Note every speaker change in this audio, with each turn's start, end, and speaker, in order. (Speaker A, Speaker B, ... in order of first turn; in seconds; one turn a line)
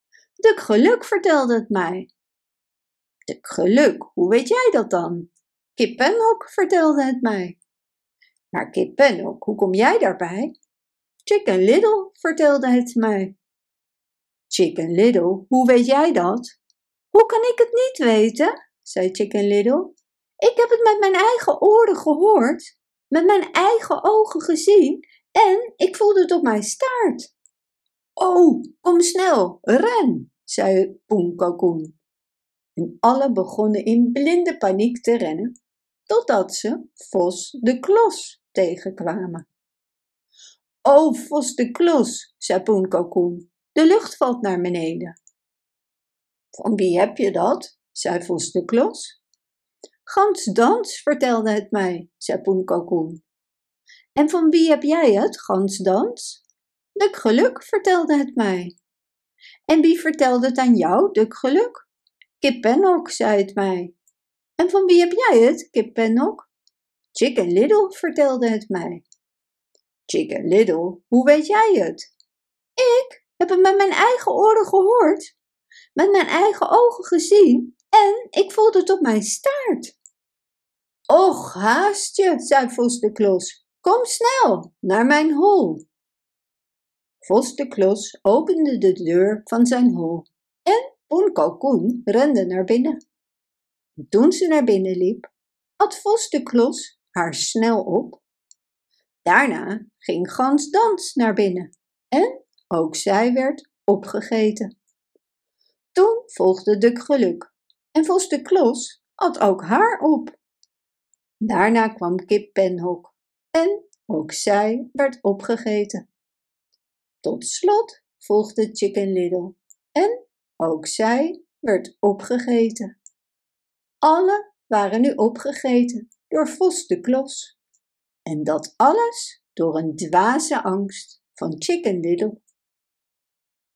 Speaker A: 0.4-2.1
Speaker A: 3.3-7.6
Speaker A: 8.5-10.5
Speaker A: 11.2-13.3
Speaker A: 14.5-16.6
Speaker A: 17.1-27.3
Speaker A: 28.2-31.9
Speaker A: 32.8-35.5
Speaker A: 36.1-39.4
Speaker A: 40.8-45.1
Speaker A: 46.5-49.2
Speaker A: 50.0-53.2
Speaker A: 54.2-56.4
Speaker A: 57.0-58.8
Speaker A: 59.7-61.9
Speaker A: 62.4-63.9
Speaker A: 64.6-66.5
Speaker A: 67.1-69.0
Speaker A: 70.1-72.1
Speaker A: 72.8-75.3
Speaker A: 76.0-79.9
Speaker A: 81.1-85.8
Speaker A: 87.2-93.0
Speaker A: 94.0-98.2
Speaker A: 99.2-104.7
Speaker A: 105.9-110.4
Speaker A: 111.4-116.0
Speaker A: 117.2-122.9
Speaker A: 124.0-127.5
Speaker A: 128.2-132.4